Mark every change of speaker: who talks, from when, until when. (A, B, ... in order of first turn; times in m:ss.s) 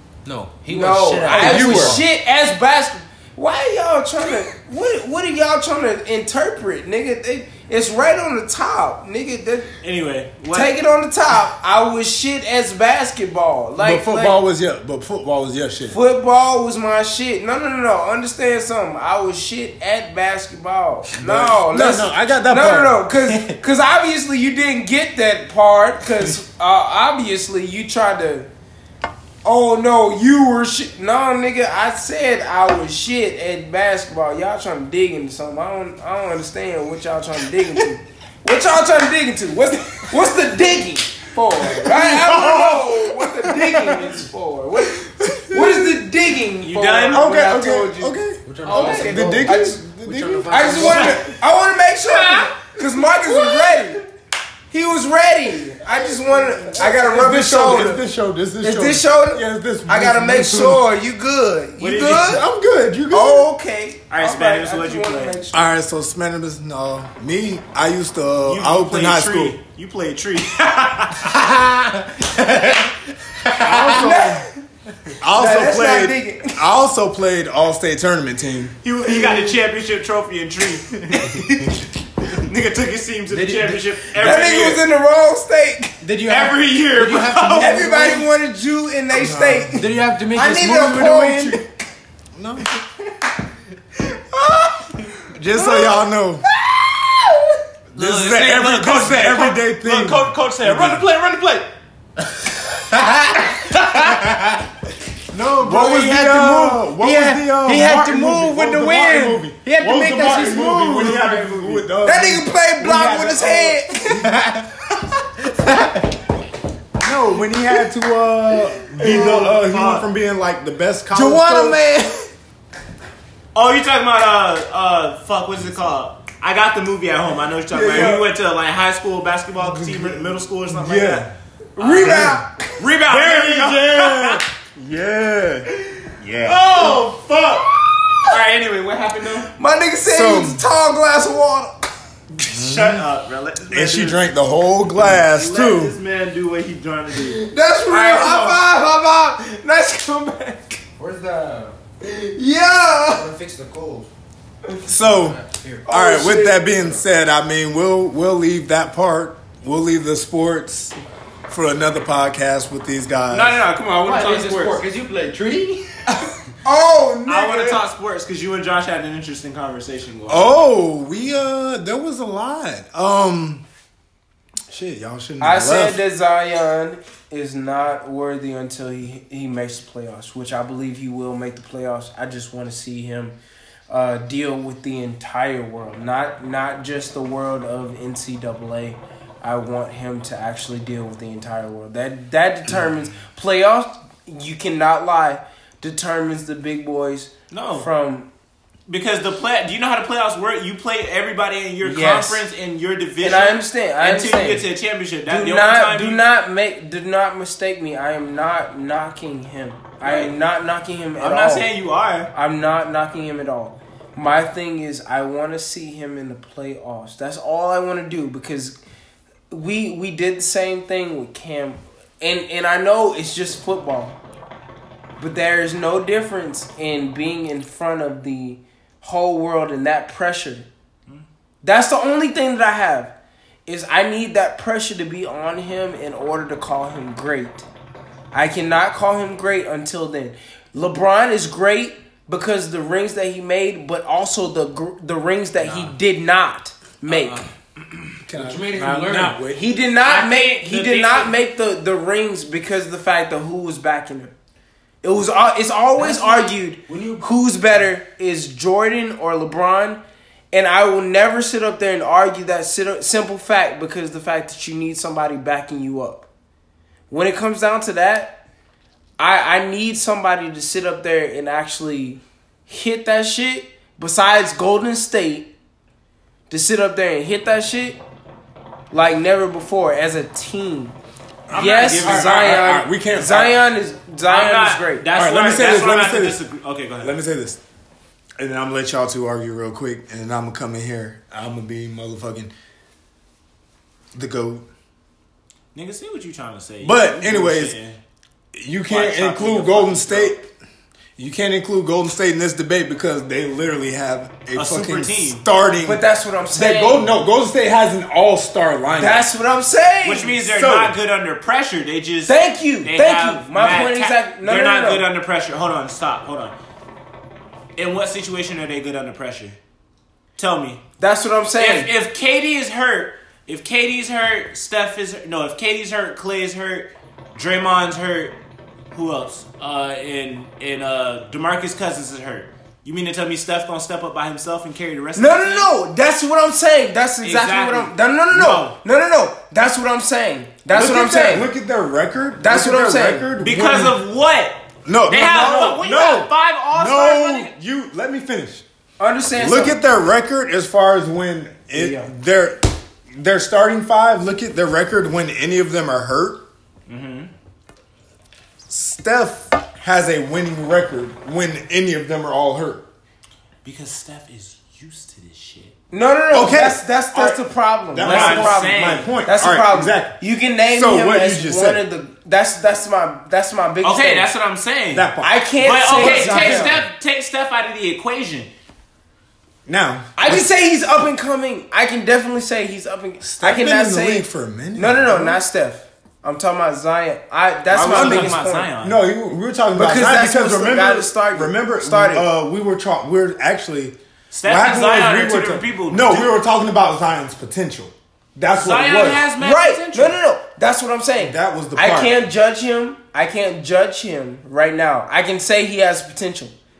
0:00.2-0:02.0 A
0:00.7-0:09.7 B
0:01.3-0:02.0 C
0:09.8-0:10.7 D
0:10.5-0:14.4 B
0:13.8-0:16.0 C
0:15.9-0:28.5 B
0:21.2-0:23.0 C
0:29.4-0:49.8 B
0:41.6-0:44.2 C
0:44.9-0:46.0 C
0:46.6-0:47.3 D
0:47.1-0:51.2 C
0:48.4-0:51.2 A
0:50.5-0:54.0 B
0:50.8-0:51.2 D
0:53.2-0:54.0 C
0:54.7-0:58.0 B
0:55.8-1:00.8 C
0:58.6-1:02.4 B
1:01.8-1:02.3 D
1:02.0-1:03.5 C
1:03.1-1:05.7 B
1:04.1-1:05.4 D
1:05.5-1:09.6 C
1:08.4-1:11.3 D
1:11.2-1:14.0 A
1:13.6-1:14.4 C
1:13.9-1:14.5 B
1:15.2-1:18.8 C
1:15.3-1:16.6 B
1:18.8-1:24.8 D
1:23.3-1:23.9 A
1:24.2-1:26.1 B
1:26.0-1:28.3 A
1:26.2-1:28.1 D
1:27.6-1:31.6 B
1:29.1-1:29.8 C
1:29.8-1:31.4 A
1:30.9-1:31.6 C
1:32.3-1:32.7 C
1:34.3-1:34.9 B
1:35.3-1:36.4 C
1:35.6-1:36.0 B
1:36.7-1:37.2 B
1:37.9-1:41.0 C
1:37.9-1:41.7 D
1:42.7-1:44.6 A
1:45.3-1:54.5 C
1:45.7-1:46.0 D
1:46.8-1:51.3 B
1:47.0-1:48.0 A
1:51.2-1:51.8 D
1:52.0-1:54.2 B
1:55.5-1:56.1 A
1:57.0-2:01.8 C
1:59.0-2:00.1 D
2:01.1-2:02.3 B
2:03.5-2:11.3 D
2:07.7-2:08.3 C
2:07.9-2:08.2 B
2:09.6-2:17.0 C
2:11.8-2:12.5 B
2:11.8-2:14.5 D
2:16.4-2:19.5 D
2:19.5-2:21.9 B
2:20.1-2:20.6 C
2:22.4-2:24.2 D
2:22.4-2:23.0 C
2:23.7-2:26.0 C
2:25.0-2:28.6 D
2:27.2-2:30.8 B
2:31.0-2:31.8 A
2:32.0-2:33.3 B
2:33.1-2:34.1 A
2:34.8-2:35.8 A
2:34.9-2:41.0 C
2:35.8-2:37.0 B
2:41.5-2:43.6 C
2:43.3-2:44.8 D
2:44.0-2:46.0 A
2:46.6-2:47.8 B
2:47.3-2:50.6 D
2:50.3-2:53.6 C
2:54.7-2:56.0 C
2:55.4-3:03.4 B
3:03.9-3:18.3 B
3:17.5-3:17.9 D
3:18.9-3:26.2 D
3:21.8-3:22.4 B
3:23.2-3:24.7 B
3:25.3-3:31.7 B
3:30.0-3:30.3 D
3:31.2-3:32.3 D
3:32.3-3:38.8 B
3:39.5-3:44.2 B
3:45.2-3:50.7 B
3:51.6-3:53.1 B
3:53.6-3:57.7 B
3:58.3-4:07.4 B
4:05.6-4:05.9 D
4:07.1-4:07.4 D
4:08.2-4:09.6 C
4:08.3-4:09.4 A
4:09.5-4:14.3 B
4:10.0-4:11.3 D
4:15.0-4:20.0 B
4:16.0-4:17.3 A
4:20.5-4:26.3 B
4:27.1-4:28.4 B
4:29.2-4:35.5 B
4:36.5-4:38.0 B
4:38.9-4:41.0 B
4:41.5-4:43.6 C
4:41.5-4:42.6 D
4:41.5-4:45.0 B
4:44.3-4:47.2 D
4:45.1-4:46.4 C
4:47.0-4:47.6 C
4:48.4-4:52.5 C
4:54.1-4:54.6 C
4:55.7-4:58.0 D
4:56.8-4:57.8 C
4:58.5-5:00.5 C
4:58.9-5:00.4 D
5:01.2-5:09.3 C
5:04.5-5:05.4 D
5:05.8-5:07.1 B
5:09.0-5:10.3 B
5:10.0-5:16.5 D
5:10.4-5:11.0 C
5:12.3-5:15.0 B
5:17.8-5:19.6 D
5:20.4-5:20.8 D
5:21.0-5:21.9 B
5:21.6-5:28.4 D
5:28.9-5:35.7 D
5:35.2-5:41.5 B
5:37.2-5:38.8 D
5:40.7-5:44.0 C
5:42.4-5:43.3 B
5:43.4-5:47.5 D
5:44.8-5:48.6 C
5:49.0-5:49.8 B
5:49.3-5:56.4 C
5:51.7-5:52.1 B
5:56.9-5:57.3 D
5:58.7-6:02.8 C
6:03.6-6:05.7 D
6:05.9-6:14.3 B
6:06.3-6:07.4 C
6:07.9-6:11.8 C
6:08.0-6:09.1 D
6:13.8-6:15.1 D
6:14.9-6:16.9 C
6:15.2-6:16.8 B
6:15.6-6:18.5 D
6:19.6-6:20.5 C
6:20.2-6:28.7 B
6:23.2-6:25.4 C
6:27.7-6:29.0 D
6:27.8-6:39.2 C
6:29.7-6:32.2 B
6:34.3-6:36.3 D
6:38.5-6:40.2 D
6:39.4-6:46.5 B
6:41.2-6:42.2 C